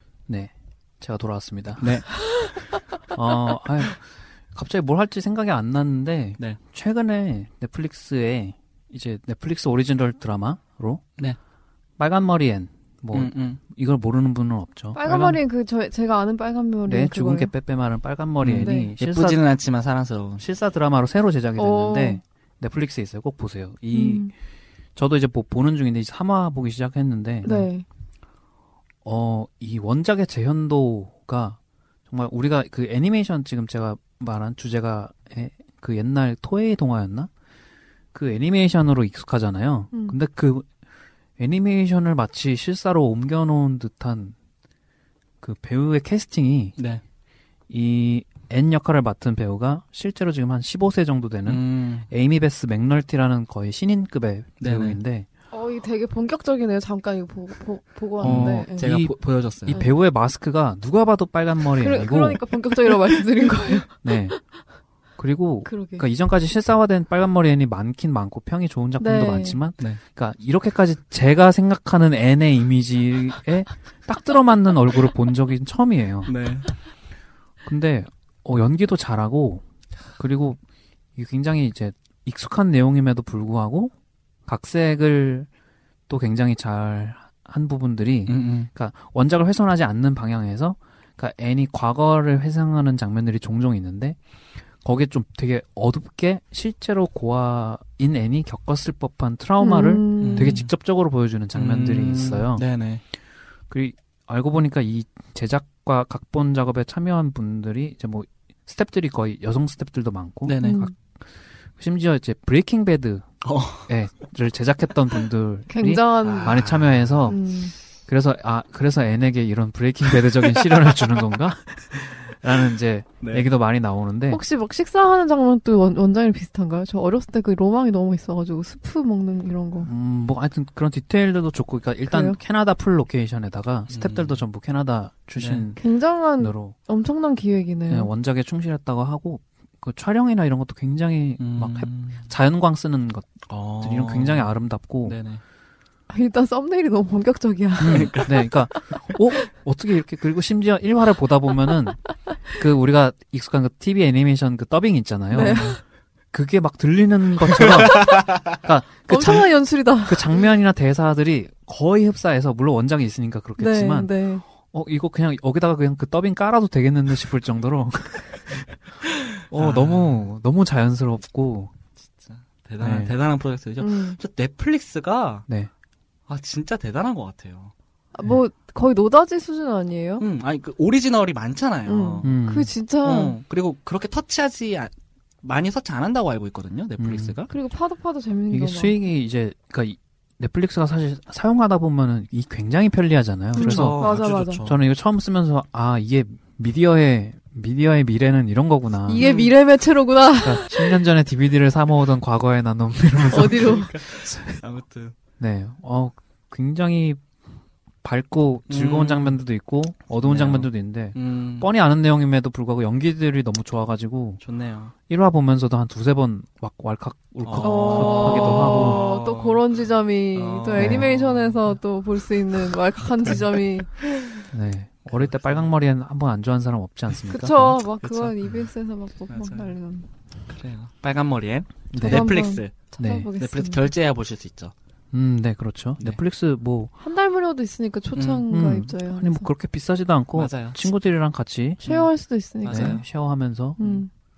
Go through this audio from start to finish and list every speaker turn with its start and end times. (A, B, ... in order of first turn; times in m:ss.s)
0:00.3-0:11.1 A
0:01.8-0:02.1 B
0:12.0-0:15.4 A
0:13.1-0:13.6 B
0:14.9-0:17.5 C
0:16.9-0:19.4 A
0:18.4-0:20.4 B
0:18.6-0:18.9 C
0:20.4-0:24.3 A
0:21.6-0:22.2 C
0:23.9-0:24.3 C
0:24.9-0:27.7 A
0:27.4-0:27.8 C
0:29.0-0:37.3 A
0:38.1-0:40.7 A
0:41.4-0:44.3 A
0:45.4-0:46.8 A
0:46.8-0:47.0 B
0:47.7-0:55.3 A
0:51.4-0:52.1 B
0:54.6-0:55.0 B
0:55.5-0:58.9 C
0:58.2-0:59.8 B
0:58.2-1:02.4 A
1:01.7-1:04.1 C
1:04.0-1:04.4 A
1:05.2-1:16.3 A
1:05.6-1:06.0 C
1:09.0-1:09.6 C
1:16.2-1:16.7 B
1:17.6-1:19.6 A
1:20.2-1:20.6 A
1:21.2-1:23.9 A
1:24.4-1:25.5 A
1:26.1-1:34.2 A
1:28.3-1:28.7 B
1:34.8-1:42.6 A
1:39.6-1:40.6 C
1:40.2-1:40.7 B
1:41.5-1:43.0 B
1:43.7-1:50.9 A
1:50.4-1:50.9 B
1:50.6-1:50.9 C
1:51.8-1:53.3 A
1:53.4-1:53.9 B
1:53.9-1:57.5 A
1:55.7-1:56.6 C
1:56.2-1:57.4 B
1:57.3-1:57.7 C
1:58.1-2:04.4 A
2:00.2-2:01.2 B
2:03.2-2:03.5 B
2:04.3-2:09.9 C
2:09.8-2:15.8 A
2:12.1-2:12.4 C
2:13.9-2:14.4 B
2:15.4-2:15.7 B
2:15.8-2:18.1 C
2:16.4-2:16.7 A
2:17.9-2:25.2 A
2:21.4-2:22.3 B
2:23.5-2:25.4 B
2:26.1-2:28.2 C
2:27.8-2:32.0 A
2:27.8-2:28.5 B
2:32.5-2:35.8 A
2:35.3-2:35.8 C
2:35.4-2:35.8 B
2:36.3-2:44.1 A
2:37.9-2:38.4 B
2:39.1-2:40.4 C
2:43.6-2:44.4 C
2:44.7-2:51.7 A
2:49.5-2:50.3 B
2:52.2-2:55.4 B
2:52.8-2:53.1 A
2:53.8-2:54.2 C
2:56.3-2:57.7 B
2:58.1-3:00.2 C
3:00.2-3:02.3 B
3:01.8-3:03.4 C
3:02.2-3:02.7 A
3:03.0-3:07.5 B
3:07.0-3:07.4 A
3:07.5-3:09.0 C
3:08.5-3:19.3 A
3:13.5-3:14.8 B
3:13.6-3:14.7 C
3:19.1-3:21.0 C
3:19.2-3:19.5 B
3:20.2-3:24.6 A
3:23.3-3:23.9 C
3:23.4-3:25.2 B
3:25.4-3:27.2 A
3:28.0-3:34.4 A
3:28.7-3:29.4 B
3:30.2-3:31.7 B
3:34.4-3:34.9 B
3:35.1-3:39.0 A
3:37.4-3:39.6 B
3:37.6-3:44.4 C
3:40.3-3:41.8 B
3:40.8-3:41.1 A
3:44.5-3:47.8 A
3:45.0-3:45.7 B
3:47.2-3:50.1 C
3:48.0-3:48.6 B
3:49.3-3:49.8 B
3:50.5-3:54.7 B
3:51.9-3:52.3 A
3:52.0-3:53.9 C
3:53.0-3:53.3 A
3:55.1-3:56.9 A
3:57.0-3:59.5 C
3:58.1-3:58.4 B
3:58.5-4:01.8 A
4:00.3-4:00.8 B
4:01.8-4:03.0 C
4:02.6-4:03.0 B
4:02.6-4:03.8 A
4:03.8-4:04.0 B
4:03.8-4:04.1 C